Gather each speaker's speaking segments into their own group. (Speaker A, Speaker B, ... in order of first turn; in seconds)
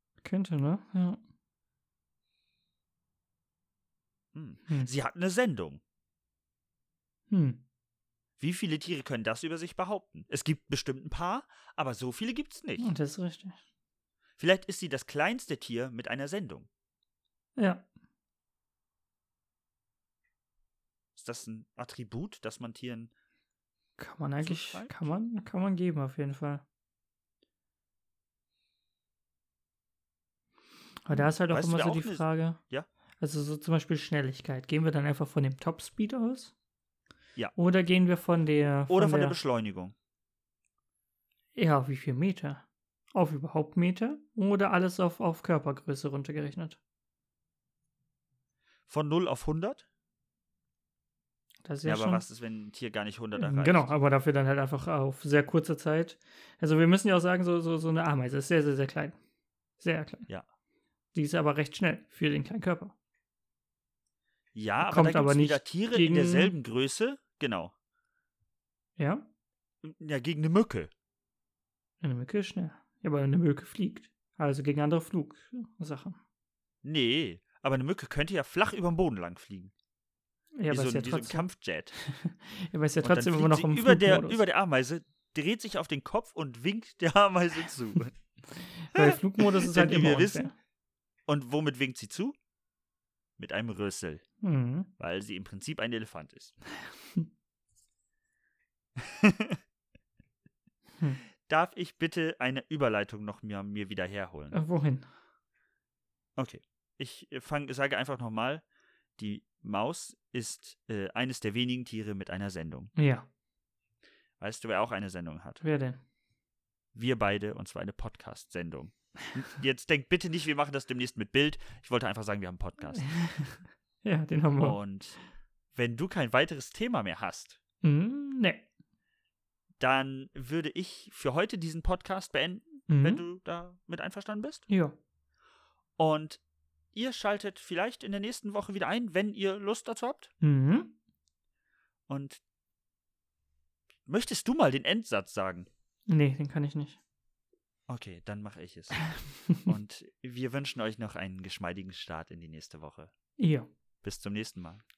Speaker A: 0.2-1.2, 7.3-7.6, 12.8-13.6, 17.6-17.9, 24.0-26.6, 31.0-32.6, 33.2-36.5, 37.5-39.4, 41.5-46.8, 51.6-52.2, 53.4-59.2, 59.8-60.2, 61.1-62.9, 64.8-66.5, 69.0-69.3, 72.0-76.2, 80.6-84.4, 88.8-90.5, 94.4-94.9, 104.5-105.1, 113.0-113.3, 115.6-116.0, 122.9-124.8, 127.8-128.6, 132.9-133.2, 134.7-134.9, 140.4-140.9, 146.1-147.0, 149.1-149.7, 153.4-153.7
Speaker B: 4.3-5.8, 8.4-12.9, 14.4-16.7, 21.1-23.1, 24.4-25.0, 31.1-32.9, 38.9-39.9, 48.9-49.9, 51.8-53.9, 64.5-67.7, 69.8-70.9, 76.8-79.7, 80.7-82.0, 83.0-88.2, 88.9-90.5, 91.3-92.3, 93.4-94.2, 95.0-96.5, 99.0-99.6, 101.4-104.6, 106.4-108.6, 109.2-112.9, 114.4-115.6, 116.9-123.1, 124.6-125.2, 125.7-127.6, 129.8-134.6, 136.0-136.4, 136.9-140.3, 142.1-142.4, 144.1-145.7, 147.9-149.0, 149.6-153.1, 154.0-154.8